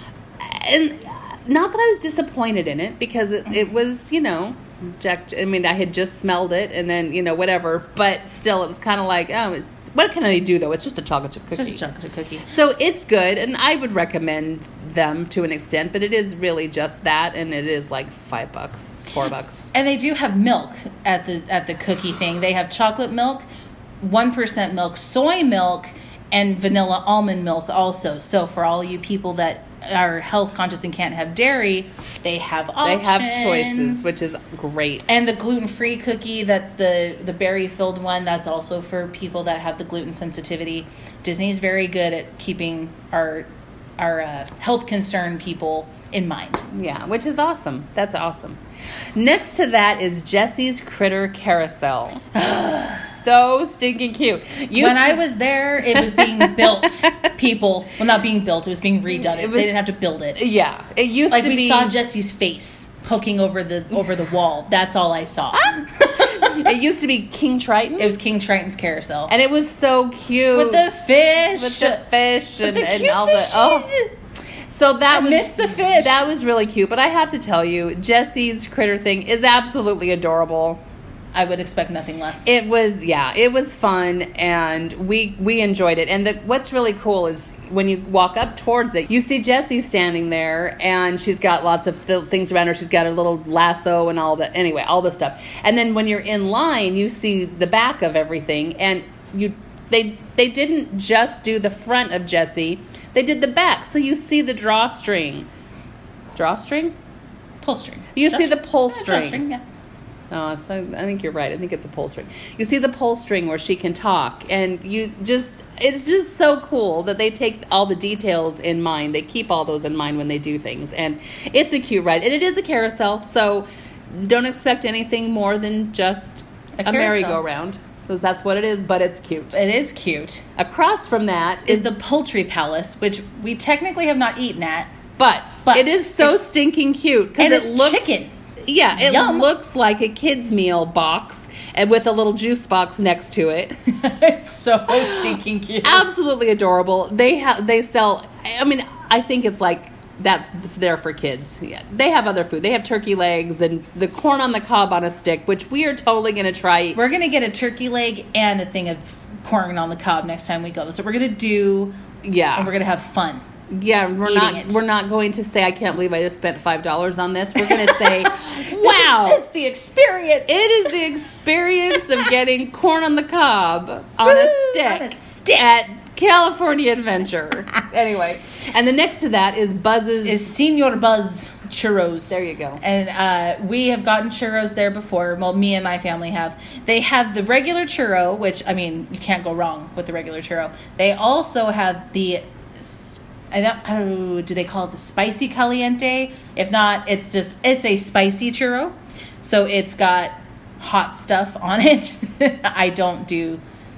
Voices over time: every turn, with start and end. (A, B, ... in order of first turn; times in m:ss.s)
0:00.4-0:11.8 A
0:11.5-0:12.5 B
0:12.5-0:19.6 A
0:19.7-0:23.4 B
0:24.0-0:34.1 B
0:32.8-0:35.1 A
0:35.1-0:46.6 B
0:46.7-0:48.6 A
0:49.2-0:55.2 A
0:54.8-1:00.4 B
0:55.9-0:57.3 A
0:59.1-0:59.8 A
1:00.4-1:01.9 A
1:01.3-1:06.7 B
1:05.5-1:08.2 A
1:08.0-1:09.3 B
1:09.3-1:10.9 A
1:10.5-1:12.0 B
1:11.5-1:13.9 A
1:12.6-1:14.1 B
1:14.7-1:20.8 A
1:15.1-1:16.2 B
1:21.3-1:22.5 B
1:22.4-1:45.5 A
1:46.4-1:46.9 A
1:47.6-1:49.6 B
1:48.2-1:49.4 A
1:50.3-2:09.6 A
2:06.8-2:07.4 B
2:09.5-2:10.4 B
2:10.6-2:11.9 A
2:11.7-2:14.9 B
2:15.2-2:18.1 A
2:15.7-2:16.5 B
2:17.4-2:18.3 B
2:18.7-2:23.8 A
2:18.9-2:19.5 B
2:23.9-2:26.1 B
2:25.8-2:37.0 A
2:36.9-2:42.0 B
2:42.2-2:42.7 A
2:42.6-2:43.4 B
2:43.7-2:49.4 A
2:44.2-2:44.8 B
2:47.6-2:50.7 B
2:50.5-3:00.5 A
2:54.2-2:55.8 B
3:00.2-3:23.6 B
3:02.3-3:02.8 A